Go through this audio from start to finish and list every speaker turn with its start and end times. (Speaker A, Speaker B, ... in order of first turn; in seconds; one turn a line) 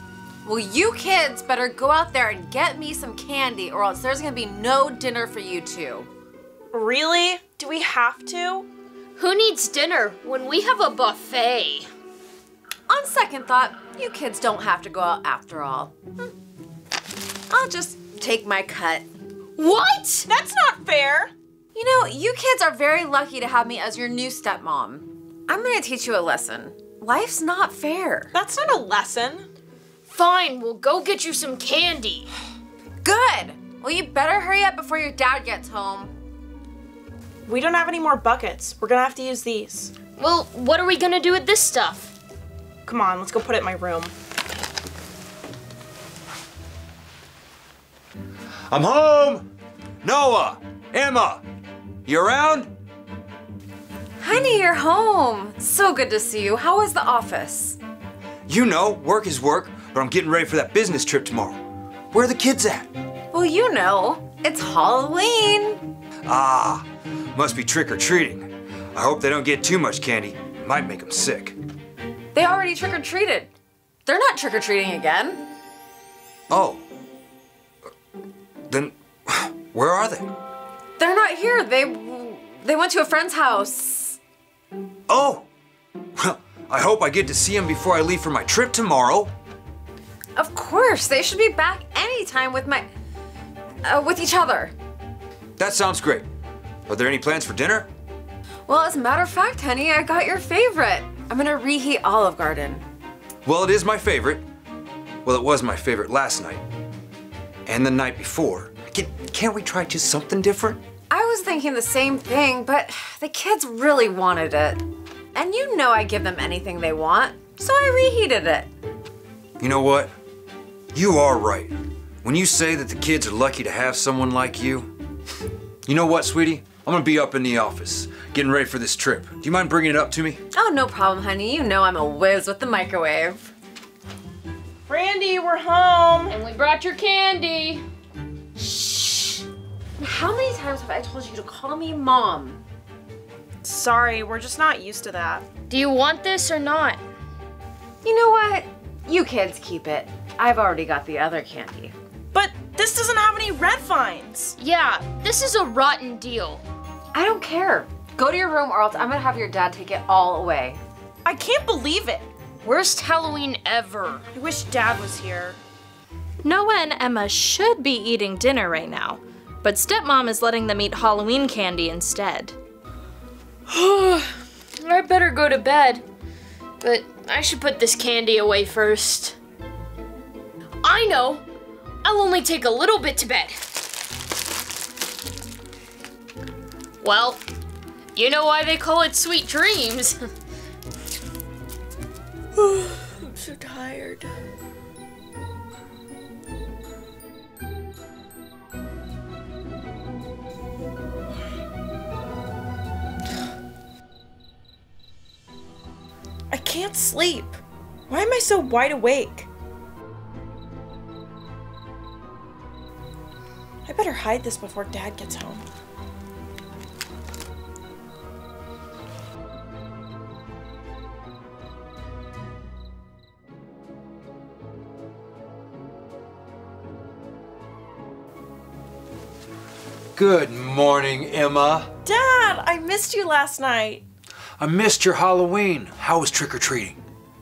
Speaker A: 0.4-6.1
Speaker B: 6.7-8.7
Speaker C: 9.2-11.9
Speaker A: 12.9-16.0
Speaker A: 17.5-19.1
Speaker C: 19.6-20.3
Speaker B: 20.3-21.3
Speaker A: 21.7-28.3
Speaker B: 28.3-29.5
Speaker C: 30.1-32.3
Speaker A: 33.0-36.1
Speaker B: 37.5-39.9
Speaker C: 40.1-42.1
Speaker B: 42.9-44.1
Speaker D: 48.7-49.5
Speaker D: 50.0-51.4
Speaker D: 52.0-52.7
Speaker A: 54.2-57.8
Speaker D: 58.5-61.6
Speaker D: 62.1-62.9
Speaker A: 63.3-65.8
Speaker D: 66.2-71.6
Speaker A: 72.3-73.5
Speaker A: 74.0-75.4
Speaker D: 76.5-76.8
Speaker D: 78.7-80.3
Speaker A: 81.0-84.2
Speaker D: 85.1-85.5
Speaker D: 86.2-89.3
Speaker A: 90.3-92.9
Speaker A: 93.8-94.7
Speaker D: 95.6-96.3
Speaker D: 96.9-97.9
Speaker A: 98.7-102.8
Speaker D: 103.4-104.4
Speaker D: 105.2-106.6
Speaker D: 107.7-110.8
Speaker A: 111.1-114.8
Speaker A: 115.3-118.7
Speaker D: 119.6-120.1
Speaker D: 120.9-124.9
Speaker D: 125.8-130.4
Speaker A: 130.5-133.5
Speaker B: 134.9-136.4
Speaker C: 136.3-137.8
Speaker C: 138.6-139.3
Speaker A: 140.0-142.6
Speaker B: 143.6-145.4
Speaker C: 145.7-147.0
Speaker A: 148.0-151.9
Speaker B: 152.3-154.6
Speaker C: 154.6-156.6
Speaker A: 157.1-160.8
Speaker B: 161.2-162.3
Speaker C: 162.6-164.2
Speaker B: 164.3-165.6
Speaker E: 166.4-172.6
Speaker C: 173.7-176.0
Speaker C: 176.8-179.4
Speaker C: 180.8-181.4
Speaker C: 182.0-183.6
Speaker C: 187.0-187.4
Speaker C: 188.1-190.2
Speaker B: 192.6-194.3
Speaker B: 206.5-209.5
Speaker B: 213.8-215.7
Speaker D: 230.2-231.9
Speaker B: 232.0-234.0
Speaker D: 234.6-237.0